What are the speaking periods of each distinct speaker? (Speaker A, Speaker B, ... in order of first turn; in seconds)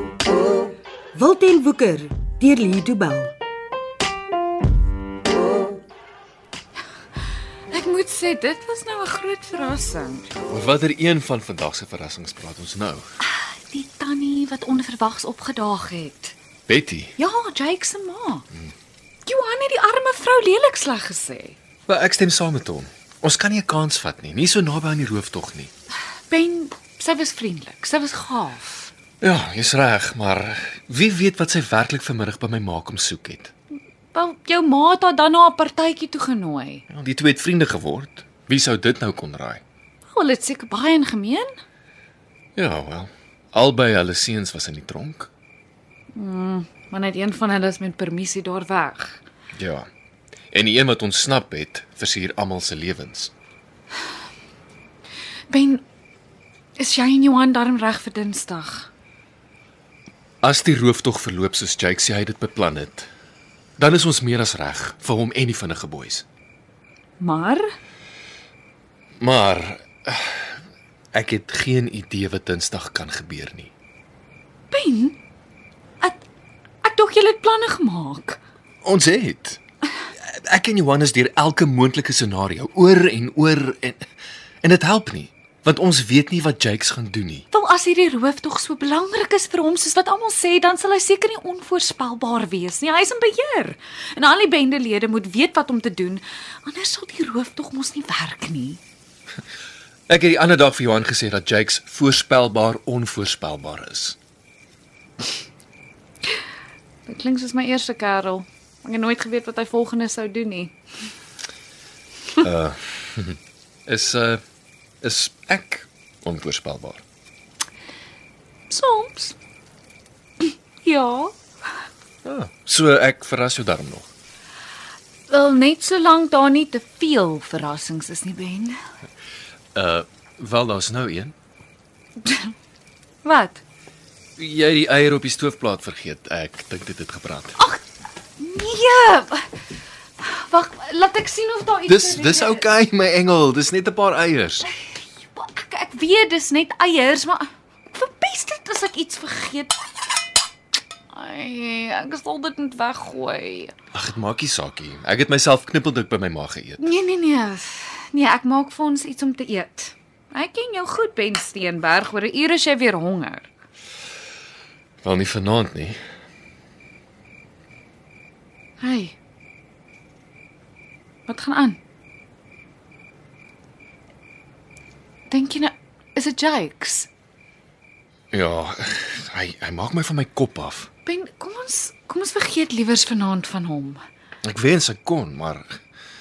Speaker A: 1.1-3.3
Speaker B: 7.7-10.3, 13.2-16.4, 17.2-18.4, 19.3-21.6, 26.3-28.9, 34.1-36.8, 40.1-41.5, 46.1-49.2, 55.5-55.8, 56.8-58.9, 67.2-67.7, 74.7-75.2, 76.8-78.4, 87.5-98.8, 107.1-110.8, 118.7-119.4, 120.4-121.3, 125.3-128.8, 132.2-132.5, 133.2-133.6, 137.6-137.8, 138.4-139.6, 140.2-142.7, 144.8-149.8, 151.1-153.7, 156.8-163.5, 168.8-169.2, 171.3-171.8, 175.3-177.1, 181.1-184.0
Speaker C: 10.4-13.1, 16.7-17.1, 21.9-25.7, 29.2-33.5, 36.9-39.6, 42.6-45.3, 49.6-49.9, 50.5-53.3, 60.4-63.1, 63.8-66.2, 69.2-70.6, 71.1-73.7, 78.8-79.6, 80.2-84.0, 84.6-87.5, 100.1-104.2, 112.4-114.4, 115.0-117.0, 122.2-124.1, 129.8-131.3, 134.4-137.6, 141.9-144.7, 153.9-156.8, 165.0-166.0, 178.3-180.9, 184.4-185.8